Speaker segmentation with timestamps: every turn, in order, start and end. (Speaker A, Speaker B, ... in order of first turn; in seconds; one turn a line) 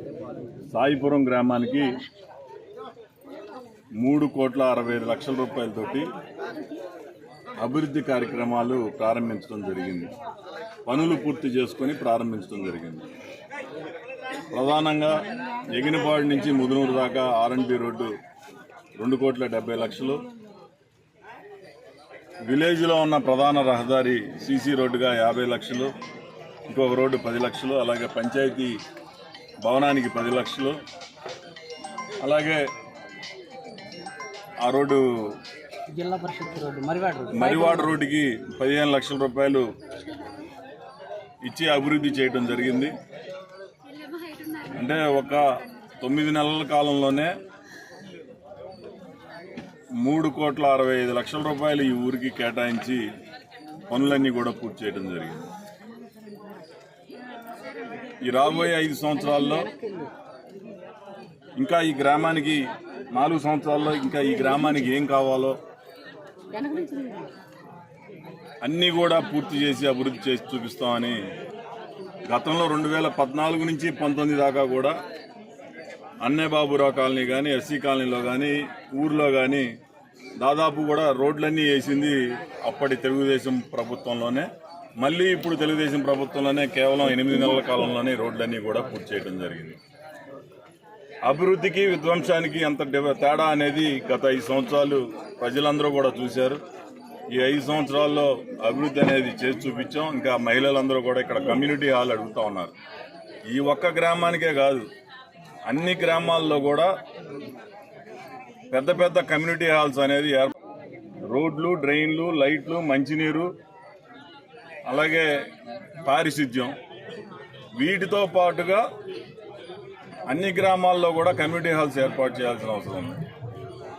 Speaker A: 0.7-2.0
Speaker A: 4.0-6.1
Speaker A: 7.6-10.1
Speaker A: 10.9-13.1
Speaker A: 14.5-15.1
Speaker A: 15.7-18.1
Speaker A: 19.0-20.2
Speaker A: 22.5-25.9
Speaker A: 26.7-28.8
Speaker A: 29.6-30.8
Speaker A: 32.2-32.6
Speaker A: 34.6-35.3
Speaker B: 35.9-37.9
Speaker A: 37.3-39.7
Speaker A: 41.4-43.0
Speaker A: 44.7-45.5
Speaker A: 46.0-47.3
Speaker A: 50.0-53.0
Speaker A: 53.9-55.5
Speaker A: 58.2-59.7
Speaker B: 59.2-60.1
Speaker A: 61.6-65.6
Speaker B: 66.5-67.3
Speaker A: 68.6-71.2
Speaker A: 72.3-74.9
Speaker A: 76.2-79.7
Speaker A: 80.4-84.5
Speaker A: 85.0-89.8
Speaker A: 91.2-96.6
Speaker A: 97.3-102.7
Speaker A: 103.5-104.8
Speaker A: 105.7-106.9
Speaker A: 108.7-110.5
Speaker A: 111.3-113.5
Speaker A: 114.9-115.3
Speaker A: 116.0-116.8
Speaker A: 117.8-118.8
Speaker A: 120.3-123.2